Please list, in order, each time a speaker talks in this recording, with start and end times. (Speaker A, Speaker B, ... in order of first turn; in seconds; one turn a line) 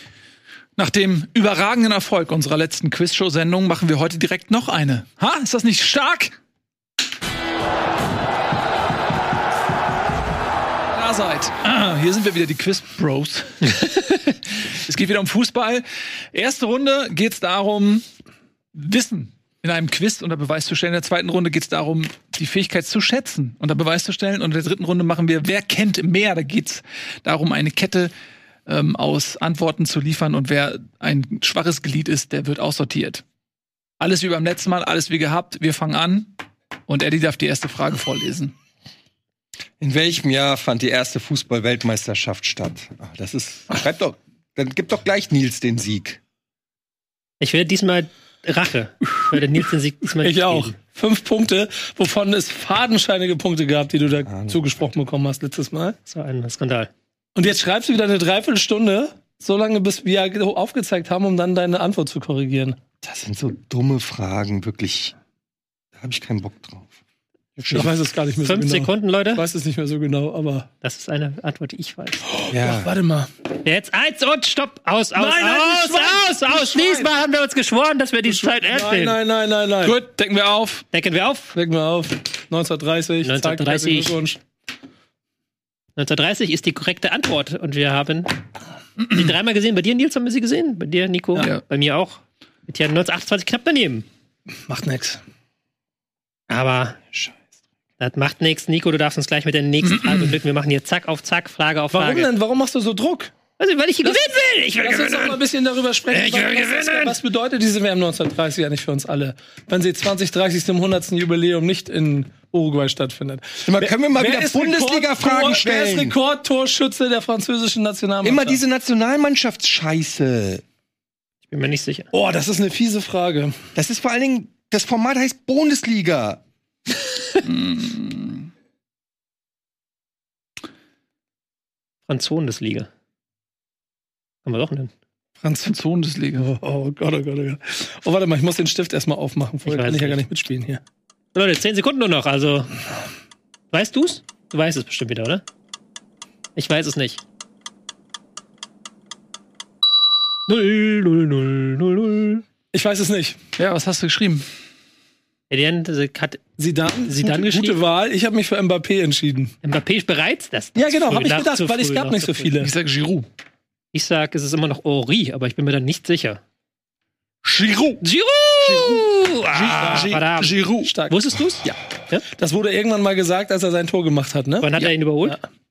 Speaker A: 0.8-6.3
Speaker A: 10.9-18.1
Speaker A: 18.7-28.1
Speaker A: 28.7-33.2
Speaker A: 34.0-36.4
Speaker A: 36.9-38.5
Speaker B: 39.8-46.2
Speaker C: 47.4-50.8
Speaker D: 50.2-56.0
Speaker B: 54.3-54.7
Speaker C: 56.1-56.9
Speaker D: 57.3-62.8
Speaker B: 63.0-65.1
Speaker B: 66.0-67.0
Speaker B: 67.6-67.9
Speaker D: 67.7-70.7
Speaker C: 68.5-69.5
Speaker C: 70.8-72.2
Speaker D: 72.3-73.3
Speaker B: 72.5-72.9
Speaker C: 73.6-79.2
Speaker D: 75.2-77.1
Speaker D: 78.3-80.0
Speaker A: 79.8-80.9
Speaker C: 80.9-81.5
Speaker D: 81.5-84.4
Speaker C: 83.2-84.2
Speaker C: 86.0-88.4
Speaker C: 89.1-94.1
Speaker D: 94.5-95.2
Speaker C: 96.5-97.0
Speaker C: 98.0-102.3
Speaker A: 99.9-100.3
Speaker D: 101.9-103.3
Speaker C: 103.6-105.4
Speaker D: 104.0-104.3
Speaker D: 104.8-118.6
Speaker A: 106.1-107.1
Speaker B: 113.6-116.2
Speaker B: 118.2-120.6
Speaker C: 121.5-122.1
Speaker D: 122.1-123.7
Speaker B: 123.7-126.4
Speaker A: 127.4-128.5
Speaker C: 132.1-132.9
Speaker C: 134.4-134.9
Speaker D: 135.4-135.7
Speaker A: 135.6-136.5
Speaker D: 136.4-140.8
Speaker C: 139.6-140.2
Speaker C: 141.3-142.7
Speaker C: 143.7-145.4
Speaker C: 146.6-147.2
Speaker C: 150.5-152.4
Speaker D: 152.7-153.4
Speaker A: 153.6-154.5
Speaker C: 155.5-156.4
Speaker D: 156.6-159.6
Speaker C: 157.1-157.8
Speaker C: 159.6-162.5
Speaker D: 160.7-162.7
Speaker A: 162.6-163.3
Speaker C: 163.9-166.4
Speaker A: 167.4-168.0
Speaker C: 168.0-172.2
Speaker A: 168.6-170.9
Speaker D: 169.8-170.1
Speaker D: 170.8-171.2
Speaker D: 172.2-174.7
Speaker C: 174.6-175.4